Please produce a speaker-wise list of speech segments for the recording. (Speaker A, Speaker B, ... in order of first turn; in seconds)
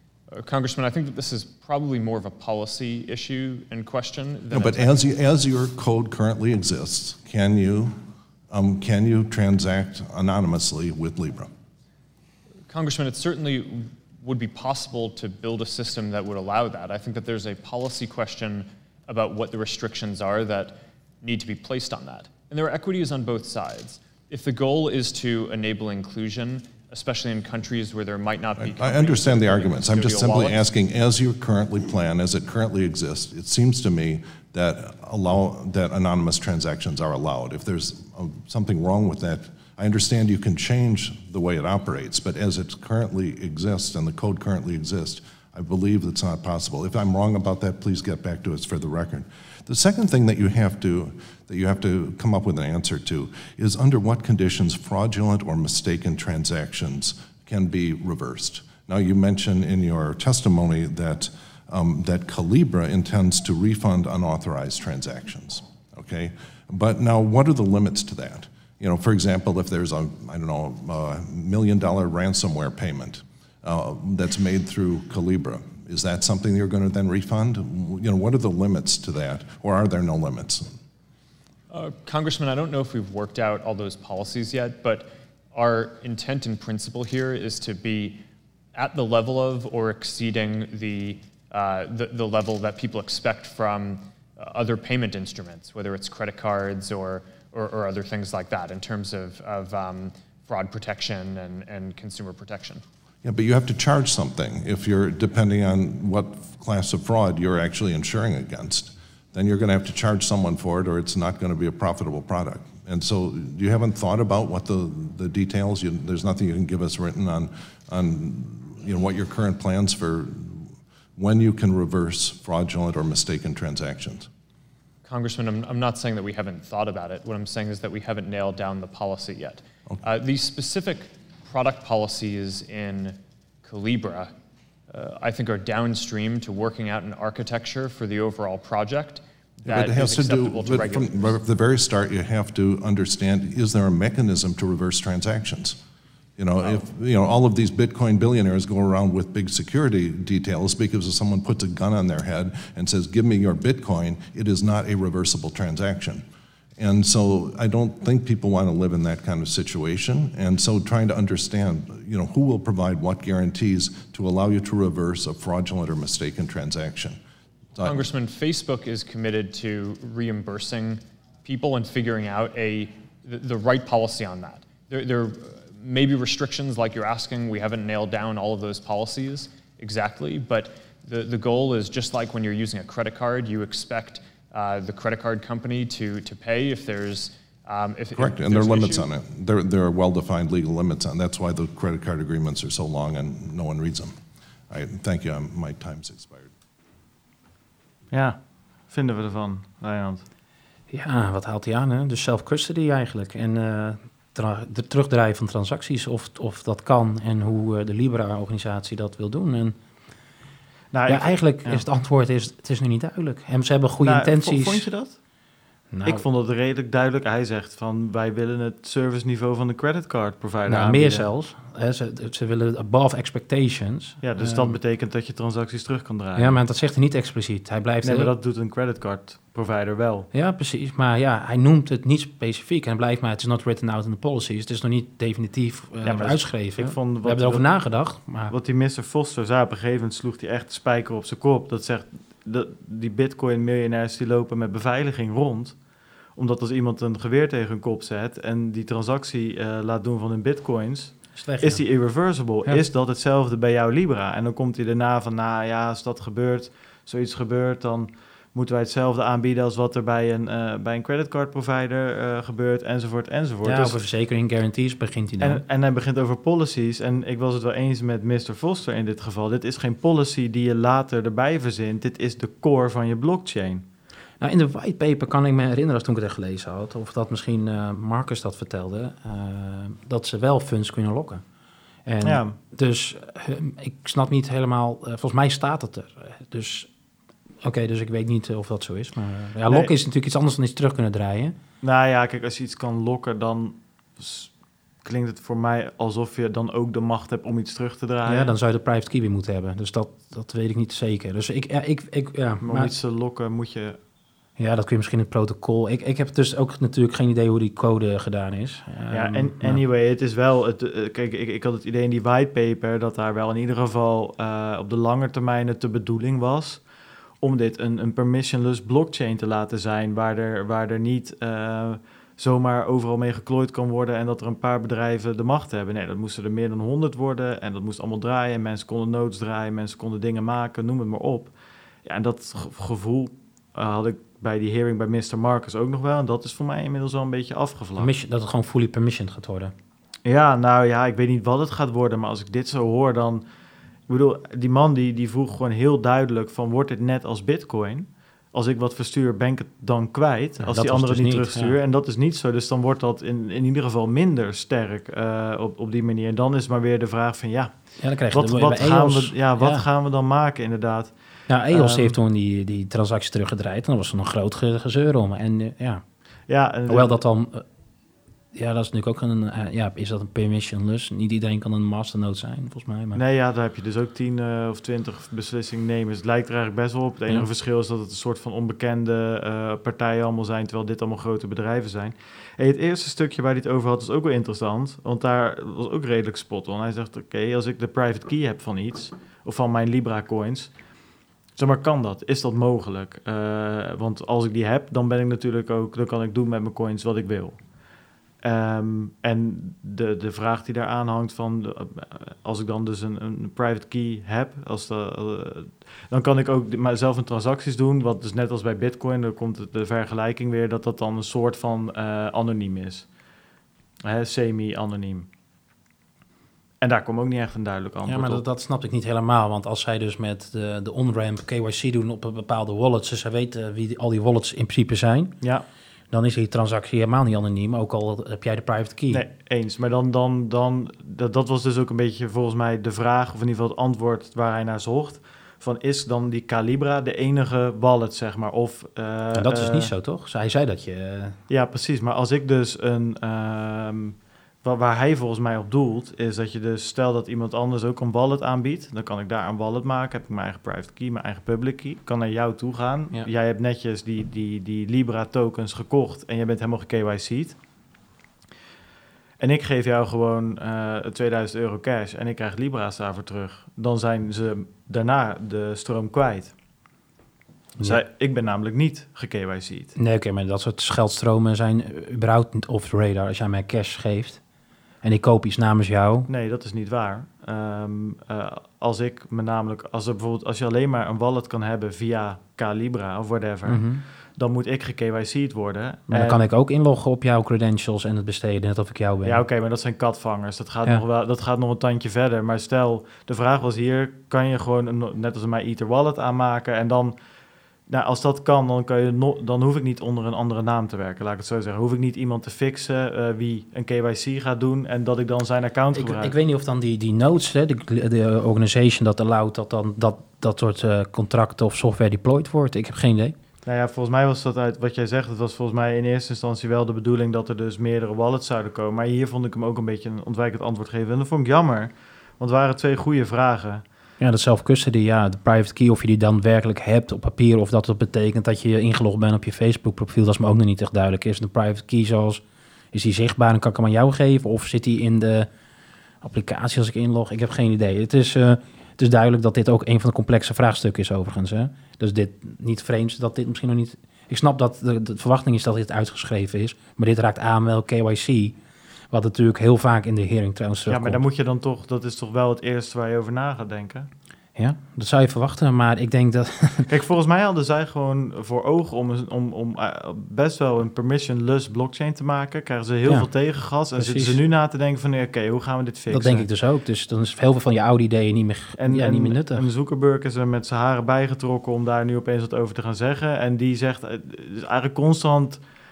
Speaker A: 0.3-5.0, 12.7-30.6, 81.7-88.2, 88.8-102.8, 125.0-134.3, 134.9-141.4, 167.8-189.1
Speaker B: 4.5-8.0, 8.5-11.5, 28.6-80.8, 103.2-124.3, 139.7-145.8, 146.4-156.2, 156.8-167.2, 167.8-168.1, 188.2-194.2, 194.7-196.5
Speaker C: 198.1-198.4, 198.9-200.2, 210.9-211.8, 214.0-215.2, 216.1-221.3, 224.2-226.6, 228.0-230.3, 236.0-237.7, 238.5-245.8, 246.3-264.0, 265.4-273.9, 282.2-282.6, 291.8-294.5, 295.0-298.5, 302.6-304.0, 309.1-316.8, 317.4-331.5, 332.1-338.1, 340.2-343.4, 344.1-361.1, 361.7-362.1, 366.5-367.1, 373.2-390.7, 391.6-397.6, 398.4-413.1, 414.0-415.3, 416.8-418.4, 429.1-439.9, 441.5-457.6, 459.4-466.5, 467.8-469.9, 476.3-483.8, 484.4-486.4, 489.2-497.2, 497.9-506.3, 513.7-523.8, 550.9-554.1, 556.9-566.5, 568.8-575.6
Speaker D: 200.9-209.8, 211.1-214.9, 215.9-216.2, 220.7-224.8, 226.4-228.3, 230.3-238.5, 251.4-251.8, 263.6-265.6, 274.4-281.4, 282.1-286.9, 287.6-291.6, 298.3-302.9, 304.6-309.8, 338.0-339.7, 350.7-351.8, 358.0-359.9, 361.5-366.0, 366.9-367.6, 368.5-373.2, 418.1-425.4, 426.1-429.2, 439.3-441.4, 470.0-474.4, 475.0-476.3, 483.7-484.0, 486.1-489.4, 505.9-513.4, 524.2-535.5, 536.2-548.6, 549.1-551.2, 554.6-556.9, 564.0-564.4, 566.1-569.7